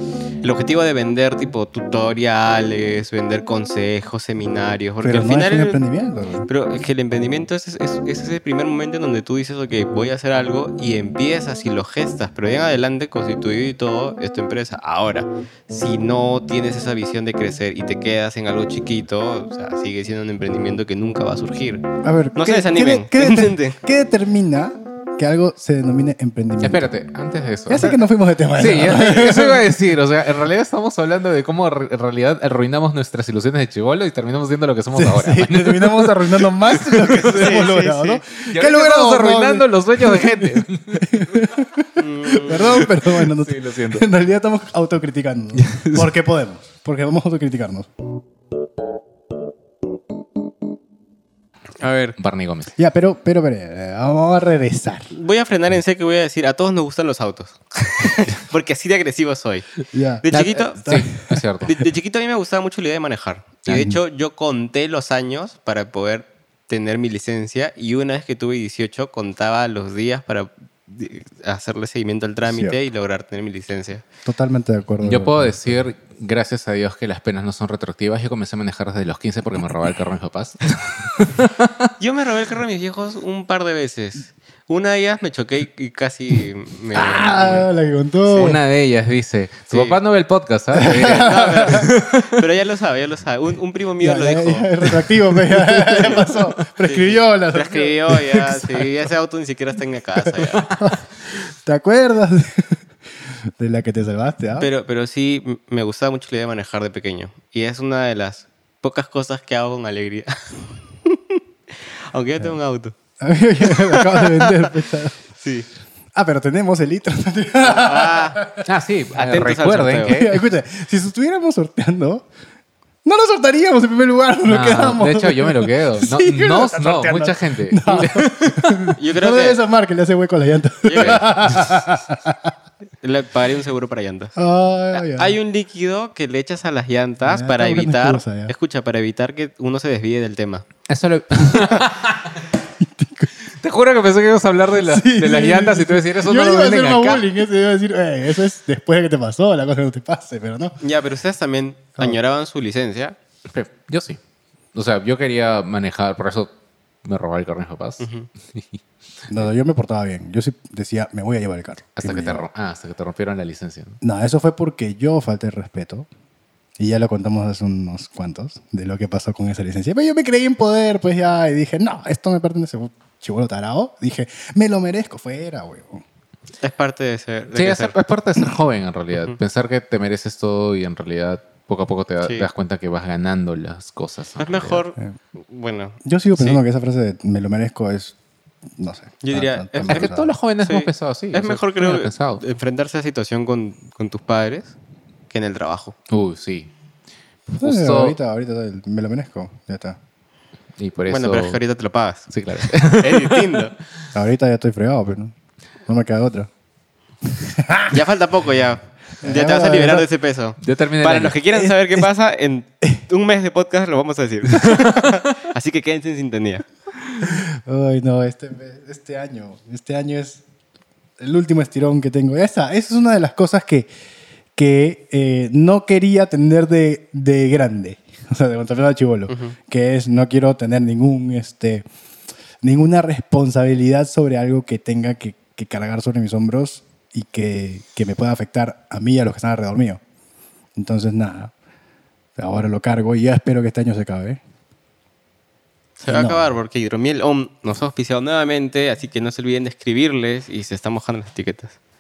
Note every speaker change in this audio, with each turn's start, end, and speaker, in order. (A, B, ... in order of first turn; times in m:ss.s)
0:00.4-0:05.8 A
0:05.0-0:06.5 B
0:06.5-0:21.8 A
0:22.0-0:26.9 B
0:22.4-0:23.8 A
0:26.6-0:28.0 C
0:27.7-0:29.7 B
0:28.5-0:37.5 C
0:34.9-0:47.9 B
0:37.1-0:38.2 A
0:38.4-0:41.4 C
0:42.0-0:42.9 A
0:42.7-0:44.1 C
0:45.6-0:46.1 C
0:51.8-0:52.2 A
0:52.2-0:52.7 C
0:52.8-0:55.1 B
0:55.1-0:59.7 A
0:59.9-1:01.4 B
1:00.2-1:00.9 A
1:00.3-1:01.7 C
1:01.6-1:14.0 A
1:03.7-1:03.9 C
1:12.5-1:12.8 B
1:14.2-1:15.6 B
1:15.0-1:21.7 C
1:22.0-1:27.7 A
1:26.9-1:28.6 B
1:28.3-1:28.6 A
1:28.4-1:32.3 C
1:29.7-1:30.0 A
1:30.7-1:31.9 B
1:31.0-1:34.7 A
1:34.0-1:38.8 B
1:36.8-1:40.7 A
1:41.6-1:42.8 B
1:43.6-1:44.7 B
1:44.6-1:51.4 A
1:52.1-1:52.9 A
1:53.2-1:55.2 B
1:53.6-1:54.7 A
1:55.4-1:55.7 A
1:56.2-1:58.6 B
1:57.6-1:58.4 A
1:58.6-2:00.4 C
1:59.2-2:00.2 A
2:00.1-2:02.3 B
2:03.0-2:12.5 B
2:04.4-2:08.9 C
2:09.0-2:09.6 A
2:10.8-2:11.3 A
2:11.0-2:11.2 C
2:13.0-2:14.3 A
2:14.4-2:15.4 B
2:14.9-2:20.7 A
2:17.2-2:18.5 B
2:20.9-2:22.5 C
2:22.8-2:23.3 B
2:23.6-2:27.3 C
2:24.8-2:30.8 B
2:30.8-2:33.2 A
2:33.5-2:34.2 C
2:34.8-2:36.5 C
2:37.0-2:38.8 C
2:38.0-2:38.3 A
2:39.3-2:42.4 B
2:42.0-2:44.0 C
2:44.0-2:46.1 B
2:46.8-2:56.0 B
2:56.6-2:58.0 A
2:57.6-3:04.8 C
3:02.2-3:02.5 A
3:04.4-3:06.6 A
3:06.0-3:08.2 B
3:08.8-3:10.3 B
3:09.2-3:10.1 A
3:09.9-3:12.4 C
3:10.6-3:14.7 A
3:15.3-3:16.0 A
3:16.1-3:16.7 C
3:17.6-3:20.0 B
3:17.6-3:18.2 C
3:20.8-3:21.6 C
3:21.1-3:23.7 A
3:22.3-3:23.5 C
3:24.2-3:25.3 B
3:25.9-3:26.5 B
3:27.4-3:28.0 B
3:27.9-3:36.6 A
3:29.2-3:30.1 B
3:30.6-3:31.4 C
3:31.5-3:32.1 B
3:37.2-3:40.4 B
3:41.2-3:43.9 B
3:44.6-3:51.9 B
3:49.3-3:49.6 A
3:52.6-4:00.0 B
4:00.8-4:01.5 B
4:02.4-4:04.4 B
4:06.0-4:11.8 A
4:06.1-4:06.5 B